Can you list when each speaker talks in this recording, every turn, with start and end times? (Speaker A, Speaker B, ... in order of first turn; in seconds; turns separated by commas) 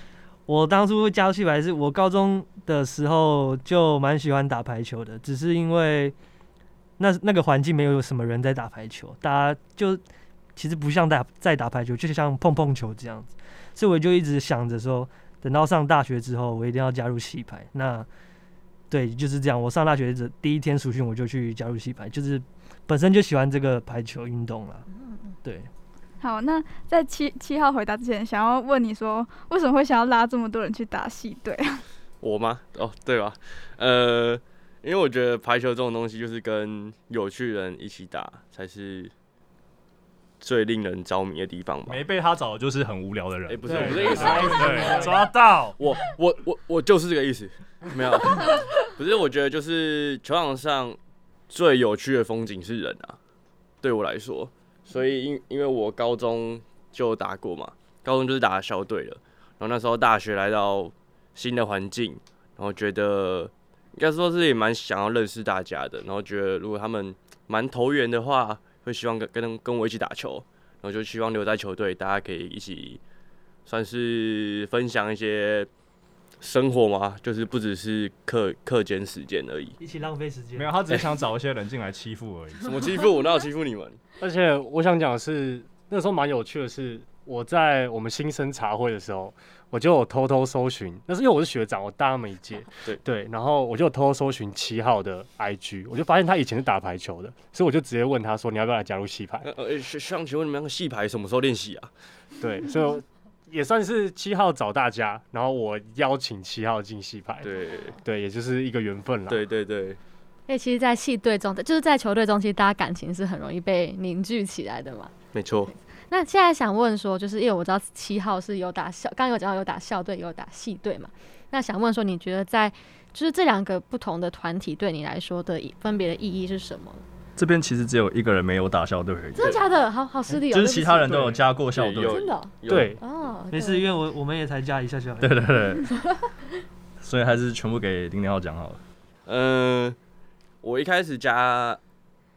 Speaker A: 0.5-6.1, Speaker A: 7.0-10.0, Speaker A: 10.6-18.1, Speaker A: 18.9-24.9, Speaker A: 25.4-25.7, Speaker B: 26.2-31.8, Speaker C: 32.2-39.1, Speaker C: 40.4-42.0, Speaker D: 41.9-45.8, Speaker C: 43.5-45.2, Speaker A: 43.6-45.2, Speaker C: 45.8-51.0, Speaker C: 51.5-53.2, Speaker C: 53.8-73.0, Speaker C: 73.7-75.7, Speaker C: 76.4-79.8, Speaker A: 79.8-80.7, Speaker D: 80.5-82.8, Speaker C: 82.6-84.0, Speaker E: 84.2-99.5, Speaker C: 99.4-101.9, Speaker E: 102.4-107.5, Speaker C: 107.4-108.0, Speaker E: 108.0-109.4, Speaker C: 109.3-110.0, Speaker F: 110.5-115.1, Speaker C: 115.3-115.7, Speaker F: 116.1-127.0, Speaker D: 127.3-129.6, Speaker F: 129.3-131.4, Speaker D: 130.4-132.2, Speaker C: 131.7-133.0, Speaker F: 132.1-133.9, Speaker E: 132.7-133.0, Speaker A: 133.5-135.4, Speaker D: 135.2-135.9, Speaker D: 137.0-138.8, Speaker C: 139.2-140.0, Speaker C: 140.6-141.8